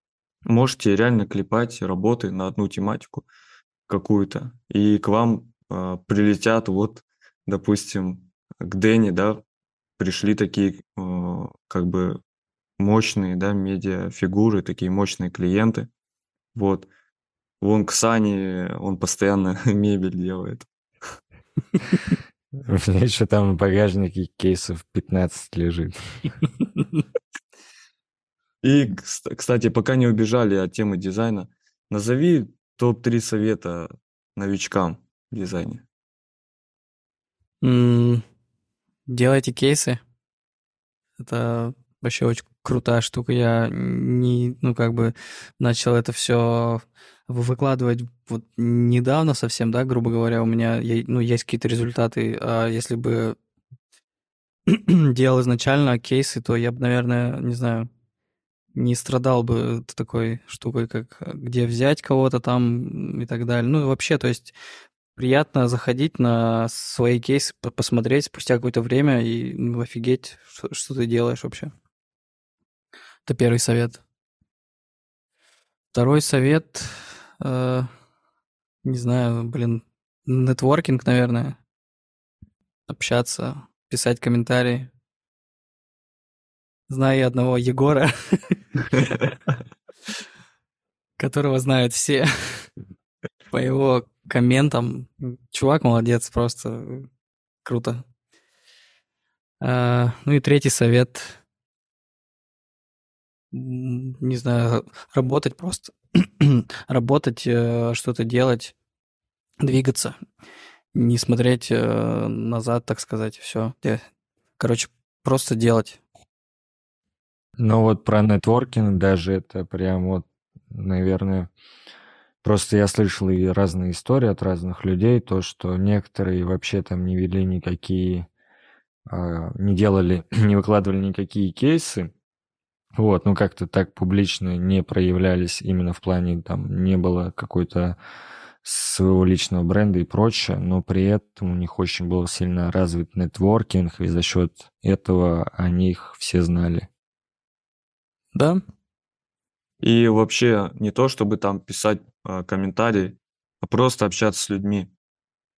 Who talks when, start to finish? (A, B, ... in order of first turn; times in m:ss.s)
0:00.4-0:03.3 A
0:03.9-0:09.4 A
0:10.0-0:12.2 A
0:12.8-0:15.9 A
0:16.5-0:16.9 A
0:17.6-0:20.7 A
0:22.6-0:26.3 B
0:28.6-0:35.8 A
0:37.6-0:38.2 C
0:39.1-0:40.0 C
0:41.2-0:53.4 C
0:54.7-0:57.9 C
0:58.7-1:04.5 C
1:05.1-1:11.7 C
1:13.2-1:14.0 C
1:15.9-1:17.9 C
1:18.8-1:21.6 C
1:22.9-1:24.9 C
1:26.9-1:29.0 C
1:31.2-1:32.7 C
1:33.5-1:37.0 C
1:37.6-1:38.0 C
1:39.6-1:41.4 C
1:43.5-1:48.7 C
1:49.6-1:50.2 C
1:50.9-1:54.0 C
1:54.6-1:56.0 C
1:57.6-2:01.5 B
2:02.4-2:08.3 B
2:09.1-2:12.1 B
2:13.0-2:18.0 B
2:18.6-2:26.9 B
2:28.3-2:28.6 C
2:29.8-2:34.9 A